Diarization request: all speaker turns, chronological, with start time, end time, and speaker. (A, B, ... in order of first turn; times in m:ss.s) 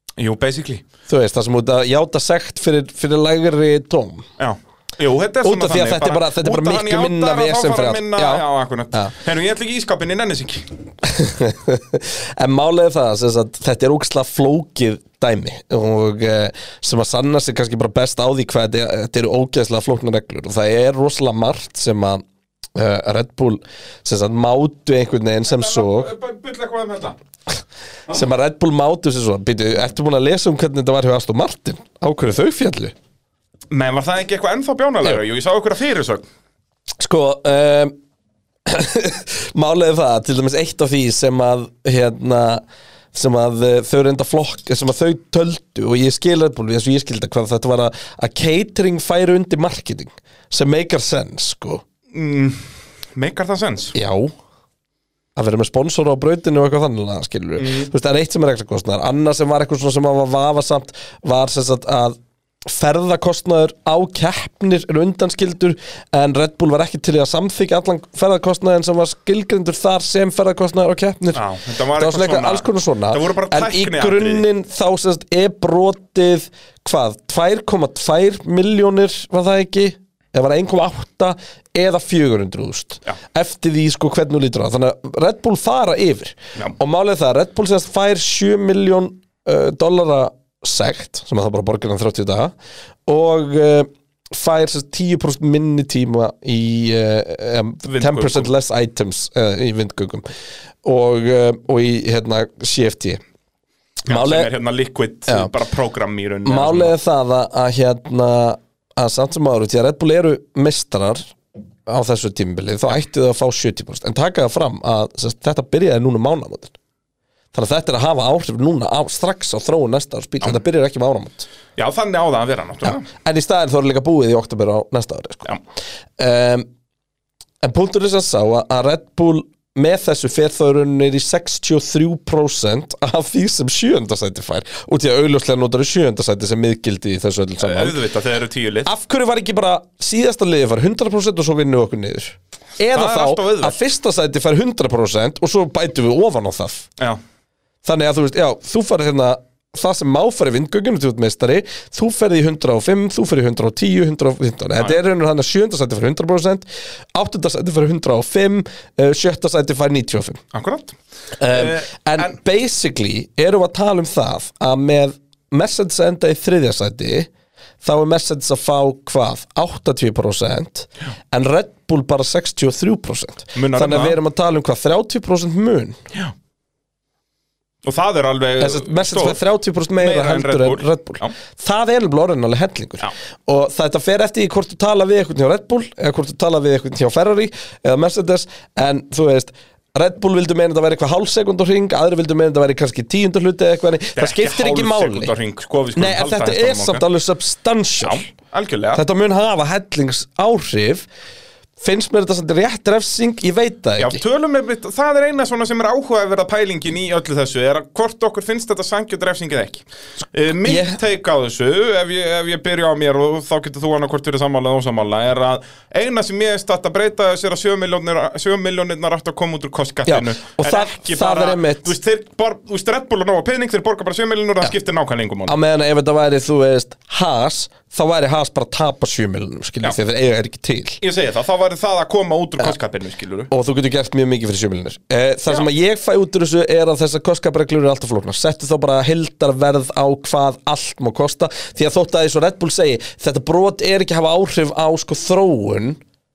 0:00.2-0:00.8 A
0:01.1-0:04.3 B
0:04.4-0:10.7 A
0:05.4-0:09.1 B
0:11.0-0:22.2 B
0:22.7-0:26.1 B
0:25.4-0:27.2 A
0:28.1-0:32.9 B
0:33.7-0:36.2 A
0:37.0-0:37.9 B
0:38.6-0:51.8 B
0:52.1-0:53.9 A
0:53.9-0:54.3 B
0:55.4-1:32.5 B
0:57.6-0:57.9 A
1:11.3-1:14.5 A
1:33.0-1:40.3 B
1:37.8-1:38.5 A
1:40.8-1:43.2 B
1:44.0-1:44.5 B
1:44.1-1:46.9 A
1:46.4-1:51.3 B
1:51.8-1:56.7 B
1:57.5-2:01.5 B
2:01.8-2:03.0 A
2:02.8-2:05.5 B
2:06.2-2:06.7 B
2:07.6-2:18.0 B
2:17.6-2:18.9 A
2:18.8-2:26.9 B
2:22.9-2:23.8 A
2:27.8-2:40.4 B
2:40.5-2:41.0 A
2:41.4-2:47.3 B
2:41.5-2:42.3 A
2:47.8-2:56.0 B
2:53.5-2:54.2 A
2:57.8-2:59.4 A
2:58.6-3:15.3 B
3:00.0-3:01.3 A
3:14.2-3:17.0 A
3:15.9-3:18.2 B
3:18.0-3:19.0 A
3:18.9-3:21.0 B
3:21.8-3:24.2 B
3:24.0-3:45.5 A
3:30.6-3:31.0 B
3:40.0-3:41.9 B
3:45.5-3:51.0 B
3:51.0-3:53.5 A
3:53.5-4:06.0 B